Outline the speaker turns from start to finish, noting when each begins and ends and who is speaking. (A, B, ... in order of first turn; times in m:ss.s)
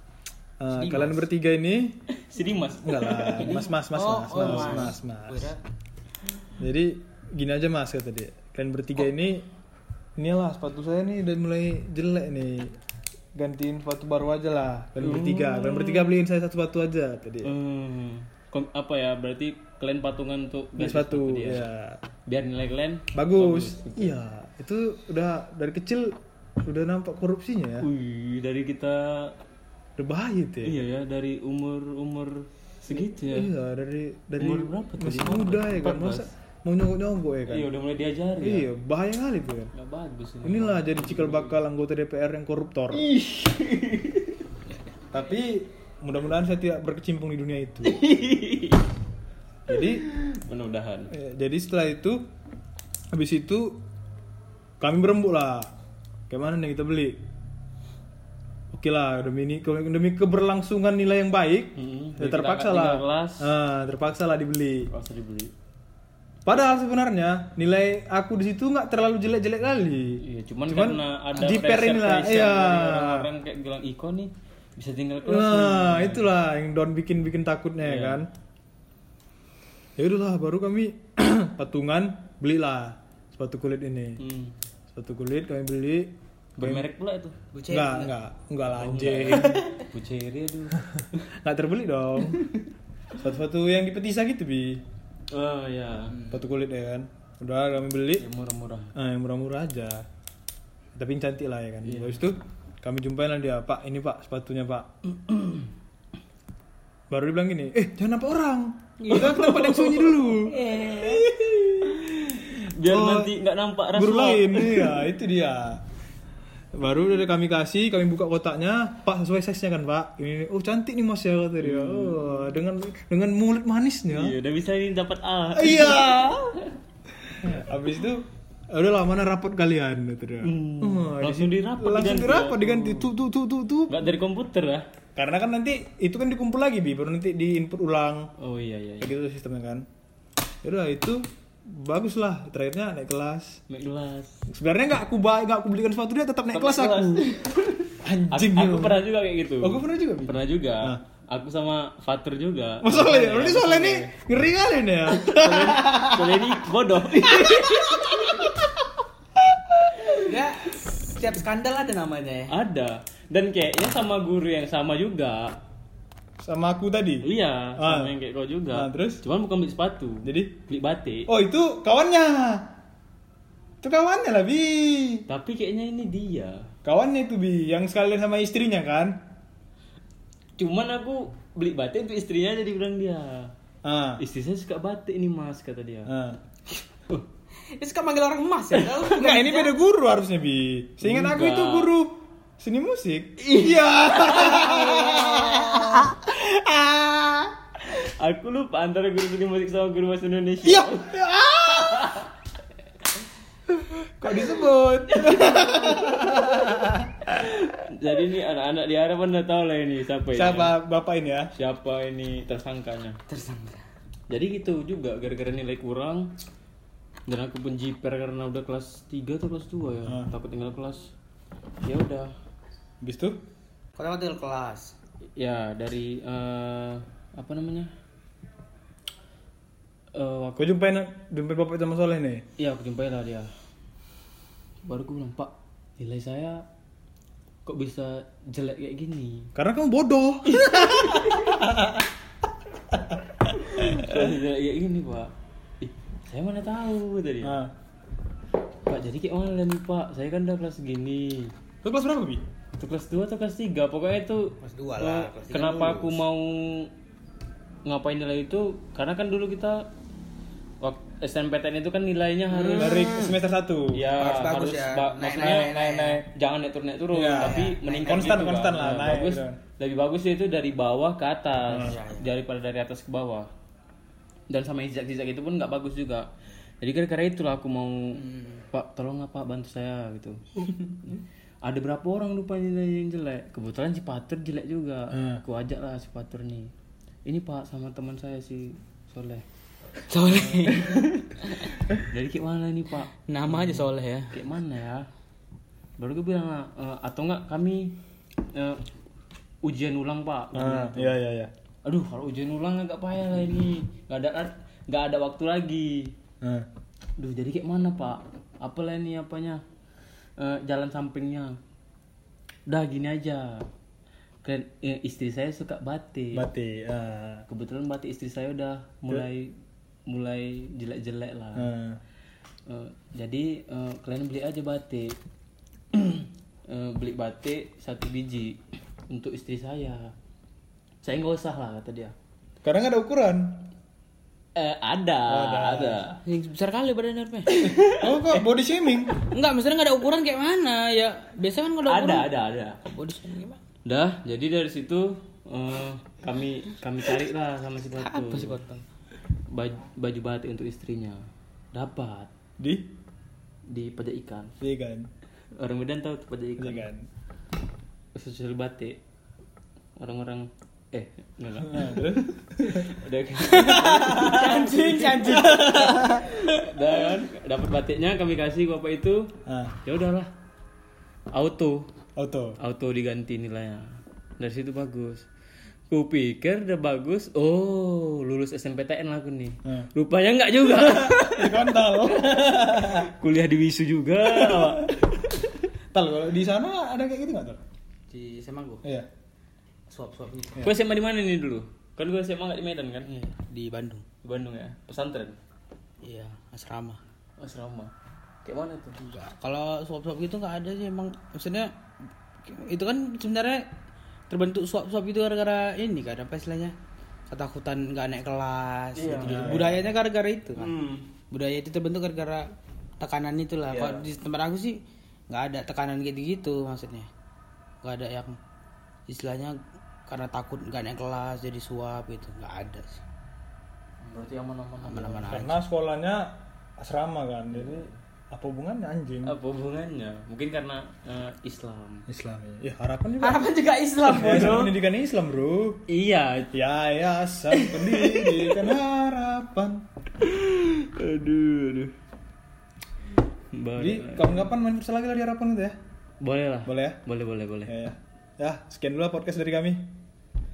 0:00.6-0:02.0 A
0:00.7-0:01.3 B
0:02.1-0:04.9 C
0:02.8-0:05.5 A
0:03.9-0:05.6 B
0:06.6-0:09.5 A
0:10.2-0:12.7 A
0:13.4-0:17.5 A
0:15.0-0:16.2 C
0:17.4-0:21.7 C
0:20.8-0:22.0 A
0:22.3-0:24.1 C
0:23.1-0:27.9 A
0:27.8-0:29.4 C
0:30.0-0:30.8 A
0:30.6-0:33.5 C
0:32.9-0:37.7 A
0:34.4-0:36.3 C
0:37.5-0:38.7 C
0:38.4-0:39.7 A
0:39.7-0:41.6 C
0:40.4-0:43.1 A
0:42.9-0:44.4 C
0:45.1-0:48.0 A
0:47.8-0:48.8 C
0:49.7-0:50.0 A
0:49.7-0:51.1 C
0:51.1-0:52.2 A
0:53.1-0:53.8 A
0:54.8-0:55.7 A
0:56.3-0:57.2 A
0:58.7-1:04.9 A
1:01.8-1:03.5 C
1:04.9-1:05.5 C
1:06.4-1:13.3 A
1:10.2-1:16.3 C
1:15.2-1:18.3 A
1:17.8-1:18.2 C
1:20.0-1:24.2 A
1:24.2-1:24.5 C
1:24.9-1:26.9 A
1:26.6-1:27.4 C
1:27.5-1:28.2 B
1:27.7-1:29.7 A
1:28.8-1:31.2 C
1:31.0-1:32.4 A
1:33.2-1:34.8 A
1:35.3-1:36.2 C
1:36.1-1:36.4 B
1:36.3-1:38.3 A
1:38.2-1:38.9 C
1:38.9-1:40.0 A
1:41.0-1:44.9 A
1:41.8-1:42.2 C
1:47.1-1:52.0 A
1:49.0-1:51.3 C
1:50.7-1:51.0 B
1:51.8-1:55.0 C
1:52.8-1:53.3 A
1:53.9-1:55.8 A
1:56.7-2:04.4 A
2:01.6-2:02.5 C
2:04.1-2:06.4 C
2:05.5-2:06.6 A
2:07.2-2:14.1 A
2:10.4-2:13.1 C
2:13.9-2:14.8 C
2:15.2-2:18.3 A
2:18.4-2:19.1 C
2:19.0-2:19.9 A
2:20.6-2:23.6 A
2:23.7-2:24.5 C
2:24.5-2:27.3 A
2:26.5-2:34.2 C
2:28.0-2:29.0 A
2:29.6-2:31.0 A
2:32.8-2:36.6 A
2:35.1-2:38.5 C
2:37.1-2:38.7 A
2:39.4-2:40.4 A
2:40.1-2:42.5 B
2:42.5-2:45.6 C
2:46.4-2:47.3 A
2:47.2-2:51.3 C
2:47.8-2:48.1 A
2:48.7-2:49.2 A
2:50.2-2:50.5 A
2:51.3-2:52.7 A
2:53.8-2:55.2 A
2:55.3-2:56.7 C
2:56.8-2:59.2 A
3:00.6-3:03.5 C
3:03.8-3:04.2 A
3:04.2-3:06.1 C
3:06.1-3:06.4 A
3:07.7-3:09.8 B
3:09.0-3:17.5 A
3:11.0-3:11.9 C
3:13.4-3:15.8 C
3:17.8-3:21.2 C
3:20.6-3:22.2 A
3:21.7-3:22.3 C
3:23.7-3:27.4 A
3:25.1-3:26.3 C
3:27.3-3:30.8 C
3:30.3-3:31.5 A
3:31.6-3:33.2 C
3:33.3-3:33.8 B
3:34.3-3:36.3 C
3:37.3-3:41.1 C
3:41.8-3:42.3 C
3:43.0-3:43.4 A
3:44.0-3:44.9 B
3:45.4-3:47.9 C
3:50.1-3:50.7 C
3:50.6-3:52.5 A
3:52.6-3:53.5 C
3:54.9-3:56.6 C
3:57.7-3:59.5 C
3:59.6-4:02.1 A
4:00.5-4:01.6 C
4:02.9-4:04.4 A
4:03.5-4:07.6 C
4:07.4-4:07.7 A
4:08.9-4:11.5 C
4:11.8-4:12.4 A
4:12.8-4:16.9 C
4:14.6-4:16.2 B
4:17.9-4:19.9 C
4:20.8-4:23.3 C
4:22.6-4:23.2 B
4:22.8-4:24.2 A
4:23.9-4:33.5 C
4:24.2-4:26.3 B
4:27.1-4:29.6 A
4:27.4-4:28.6 B
4:31.7-4:32.0 A
4:31.9-4:32.3 B
4:34.5-4:36.3 C
4:36.8-4:38.2 C
4:38.2-4:38.6 B
4:38.7-4:40.4 C
4:41.1-4:46.7 C
4:45.1-4:45.4 A
4:47.3-4:49.4 C
4:50.1-4:51.7 B
4:50.4-4:51.2 C
4:52.0-4:55.1 C
4:53.3-4:54.4 B
4:56.0-4:58.0 C
4:58.5-4:58.8 C
4:59.6-5:01.2 C
5:00.5-5:01.5 A
5:01.8-5:06.1 C
5:06.4-5:06.7 A
5:07.2-5:09.6 C
5:10.4-5:11.6 C
5:12.7-5:13.7 C
5:14.4-5:16.4 C
5:16.3-5:17.4 A
5:17.5-5:19.6 C
5:20.1-5:21.7 C
5:21.6-5:22.0 A
5:22.7-5:25.2 C
5:25.9-5:28.6 C
5:29.1-5:30.1 C
5:31.0-5:32.1 C
5:32.6-5:33.7 A
5:34.6-5:36.2 C
5:35.3-5:36.0 A
5:36.2-5:38.4 B
5:37.6-5:37.9 C
5:37.7-5:39.1 A
5:39.2-5:42.3 B
5:41.9-5:42.8 C
5:42.8-5:43.6 B
5:43.9-5:48.6 C
5:48.0-5:48.8 B
5:49.5-5:51.2 C
5:51.7-5:52.3 C
5:52.6-5:52.9 A
5:53.7-5:54.5 C
5:54.6-5:55.1 A
5:55.6-5:56.9 C
5:56.6-5:57.1 A
5:58.2-5:59.0 C
6:00.0-6:09.3 C
6:01.6-6:03.0 A
6:03.5-6:05.9 B
6:03.7-6:04.5 A
6:05.2-6:06.5 A
6:09.5-6:09.7 A
6:09.8-6:10.3 C
6:11.3-6:11.9 C
6:12.2-6:12.6 A
6:12.6-6:15.3 C
6:15.9-6:21.9 C
6:20.8-6:23.1 A
6:22.8-6:25.5 C
6:24.2-6:24.9 A
6:25.9-6:27.6 A
6:28.1-6:28.8 B
6:29.9-6:30.6 B
6:30.6-6:33.1 C
6:33.1-6:34.0 B
6:34.2-6:35.4 C
6:36.0-6:37.0 B
6:37.4-6:37.9 C
6:38.4-6:39.0 C
6:39.0-6:41.7 B
6:42.5-6:43.7 B
6:44.3-6:46.7 B
6:47.3-6:50.8 B
6:49.0-6:49.7 C
6:49.2-6:49.8 A
6:50.6-6:51.1 C
6:51.3-6:52.5 B
6:53.0-6:54.8 B
6:53.7-6:54.1 C
6:55.3-6:57.1 B
6:57.8-6:58.4 B
6:59.1-7:03.0 B
7:04.0-7:05.3 C
7:04.9-7:05.6 B
7:05.3-7:09.3 A
7:07.6-7:07.9 C
7:09.2-7:12.1 C
7:12.1-7:13.5 A
7:13.2-7:14.7 B
7:14.1-7:14.7 C
7:14.1-7:15.8 A
7:15.9-7:16.5 C
7:16.5-7:19.9 A
7:17.5-7:18.5 C
7:20.2-7:21.9 C
7:23.5-7:24.4 C
7:23.8-7:25.8 A
7:26.2-7:27.8 C
7:26.7-7:27.0 A
7:27.7-7:29.9 A